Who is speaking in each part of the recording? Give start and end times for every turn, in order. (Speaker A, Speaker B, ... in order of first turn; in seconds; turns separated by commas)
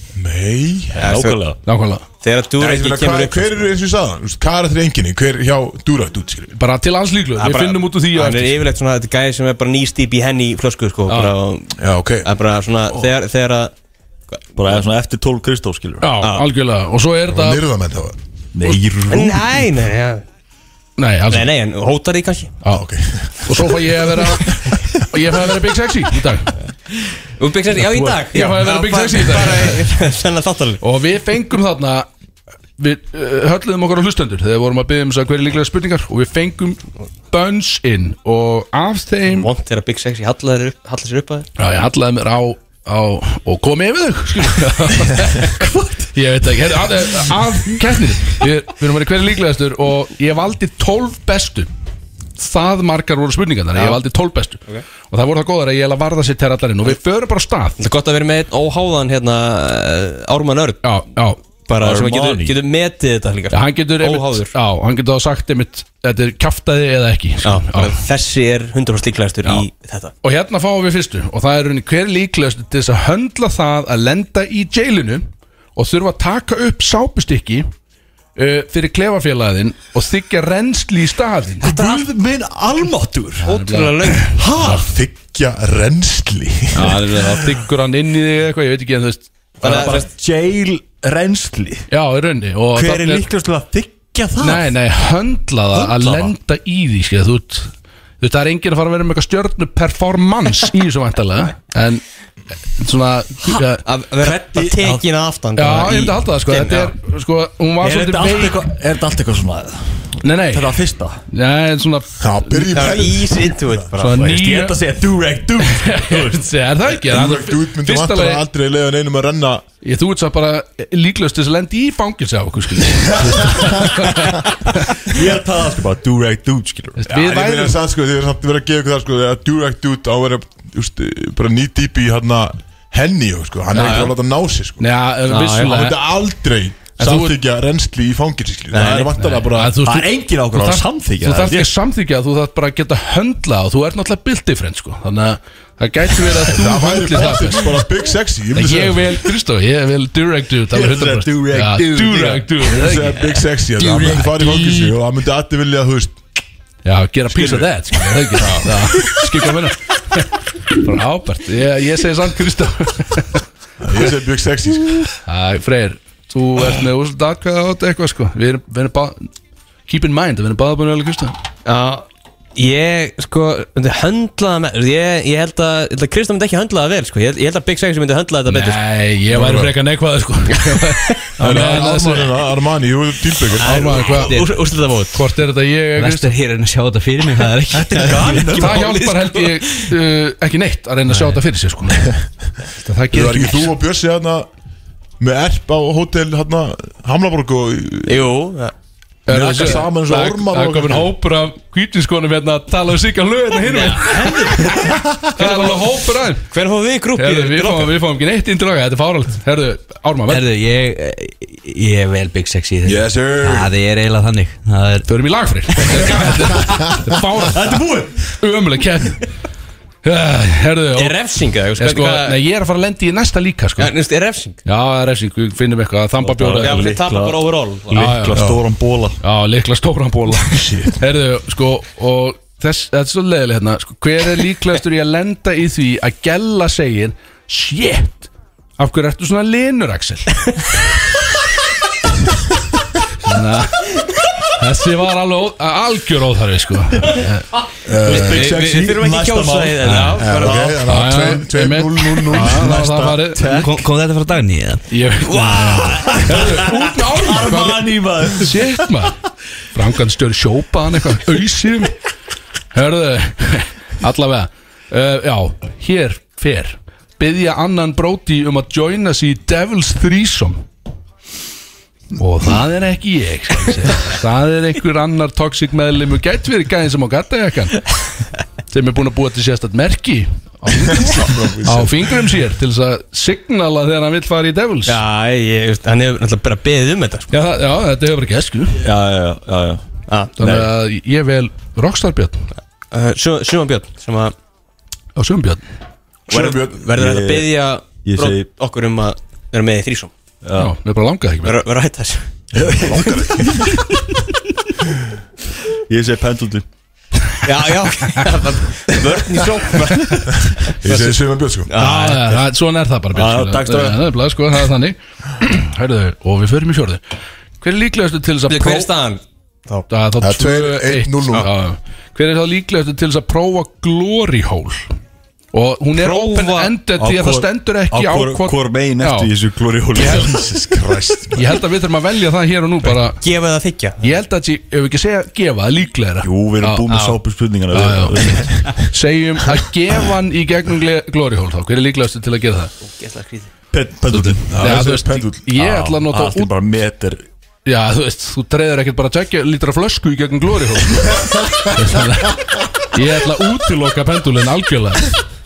Speaker A: 0.1-1.1, Speaker B: 1.0-1.6, Speaker C: 1.0-1.4, Speaker D: 1.6-2.0, Speaker C: 2.2-3.7, Speaker A: 2.6-6.5, Speaker D: 6.5-8.6, Speaker C: 7.4-13.7, Speaker D: 11.1-11.3, Speaker A: 11.8-12.3, Speaker C: 14.3-14.8, Speaker B: 14.6-16.1, Speaker D: 16.0-17.6, Speaker C: 16.2-16.4, Speaker A: 17.3-18.2, Speaker B: 18.6-19.6, Speaker C: 19.1-20.2, Speaker D: 21.0-21.5, Speaker C: 21.3-22.5, Speaker A: 22.6-24.9, Speaker D: 23.4-26.6, Speaker C: 27.4-30.8, Speaker D: 27.8-29.8, Speaker D: 30.8-32.1, Speaker D: 32.8-39.5, Speaker C: 39.3-41.5, Speaker D: 41.6-51.7, Speaker B: 45.4-46.1, Speaker D: 52.4-57.8, Speaker C: 53.7-54.0, Speaker C: 57.8-60.8, Speaker D: 60.8-61.4, Speaker C: 61.7-64.5, Speaker B: 61.8-62.6, Speaker D: 63.5-68.0, Speaker C: 67.4-70.1, Speaker D: 70.2-77.7, Speaker D: 78.4-81.7, Speaker B: 81.6-83.5, Speaker D: 83.4-84.4, Speaker C: 83.4-84.4, Speaker B: 84.3-84.9, Speaker A: 84.6-87.4, Speaker D: 86.7-89.9, Speaker C: 89.6-90.1, Speaker B: 89.6-91.9, Speaker D: 91.9-93.3, Speaker B: 92.7-94.7, Speaker D: 94.4-102.0, Speaker B: 95.7-96.3, Speaker D: 102.7-103.8, Speaker C: 103.8-106.9, Speaker B: 104.2-105.0, Speaker D: 105.6-108.7, Speaker B: 107.8-111.2, Speaker D: 110.2-110.8, Speaker D: 111.3-112.8, Speaker A: 112.2-113.8, Speaker C: 112.7-114.3, Speaker D: 114.0-114.8, Speaker B: 114.1-116.5, Speaker D: 115.6-118.4, Speaker A: 117.0-119.6, Speaker D: 119.8-125.0, Speaker A: 123.3-123.7, Speaker B: 125.0-127.0, Speaker D: 127.0-127.8, Speaker A: 127.1-134.9, Speaker C: 133.7-134.1, Speaker D: 134.8-136.0, Speaker C: 135.3-135.7, Speaker A: 135.5-139.8, Speaker D: 137.0-137.3, Speaker C: 137.0-137.3, Speaker C: 138.7-139.1, Speaker D: 139.2-147.8, Speaker B: 139.8-141.7, Speaker A: 146.3-149.2, Speaker D: 148.5-153.4, Speaker B: 150.7-152.6, Speaker A: 152.6-156.2, Speaker B: 153.9-154.2, Speaker D: 154.1-154.4, Speaker D: 156.8-163.4, Speaker A: 158.4-159.0, Speaker A: 163.8-165.1, Speaker D: 165.3-169.3, Speaker D: 169.9-171.3, Speaker C: 171.7-178.8, Speaker D: 178.5-182.4, Speaker A: 179.3-179.7, Speaker C: 180.6-181.2, Speaker A: 181.4-184.2, Speaker C: 183.6-185.2, Speaker D: 183.6-184.4, Speaker D: 185.1-186.3, Speaker E: 185.9-189.4, Speaker B: 187.7-188.9, Speaker D: 188.5-192.1, Speaker D: 192.8-193.7, Speaker A: 193.1-194.5, Speaker A: 195.2-198.3, Speaker C: 198.1-198.7, Speaker D: 199.3-204.8, Speaker A: 199.3-201.1, Speaker C: 203.6-205.8, Speaker E: 203.8-204.6, Speaker D: 205.3-206.5, Speaker C: 206.5-207.9, Speaker D: 207.2-210.4, Speaker E: 210.3-215.1, Speaker A: 212.8-213.7, Speaker D: 215.1-217.8, Speaker B: 217.5-218.4, Speaker D: 218.4-219.2, Speaker D: 220.0-221.2, Speaker C: 220.9-222.4, Speaker D: 221.8-223.9, Speaker C: 223.8-224.6, Speaker D: 224.7-226.9, Speaker B: 226.2-229.2, Speaker C: 226.6-228.0, Speaker D: 227.9-228.4, Speaker A: 228.3-228.6, Speaker D: 229.2-240.3, Speaker A: 230.4-231.0, Speaker D: 243.2-243.9, Speaker D: 244.6-247.5, Speaker A: 247.9-248.5, Speaker B: 248.0-250.7, Speaker C: 248.1-250.7, Speaker A: 250.2-252.7, Speaker D: 250.9-253.6, Speaker B: 252.3-253.8, Speaker E: 253.5-254.9, Speaker D: 254.9-259.2, Speaker B: 255.3-258.9, Speaker D: 259.7-261.9, Speaker D: 262.7-270.6, Speaker D: 272.2-277.9, Speaker D: 278.7-285.0, Speaker A: 280.8-282.2, Speaker C: 284.9-287.3, Speaker D: 287.3-288.8, Speaker B: 288.7-289.8, Speaker B: 290.4-290.7, Speaker D: 290.4-292.5, Speaker C: 292.9-294.3, Speaker D: 295.1-295.6, Speaker A: 296.3-296.9, Speaker C: 296.3-300.1, Speaker B: 296.9-298.4, Speaker B: 300.4-300.7, Speaker D: 300.6-301.6, Speaker C: 301.4-302.3, Speaker A: 302.5-303.9, Speaker B: 305.9-306.6, Speaker C: 307.4-312.4, Speaker A: 310.8-311.7, Speaker D: 311.8-317.0, Speaker B: 313.1-314.0, Speaker D: 317.6-318.9, Speaker C: 318.5-319.9, Speaker D: 319.9-324.8, Speaker A: 320.2-321.5, Speaker D: 325.5-329.3, Speaker C: 325.9-326.7, Speaker B: 327.0-330.5, Speaker D: 329.9-330.4, Speaker A: 330.3-331.6, Speaker D: 331.3-333.2, Speaker C: 333.1-334.0, Speaker D: 334.0-336.9, Speaker B: 336.2-338.8, Speaker C: 336.9-337.2, Speaker D: 337.7-342.7, Speaker C: 342.8-343.5, Speaker B: 343.7-344.7, Speaker D: 344.1-346.5, Speaker A: 344.5-345.5, Speaker B: 345.6-347.2, Speaker D: 347.6-355.1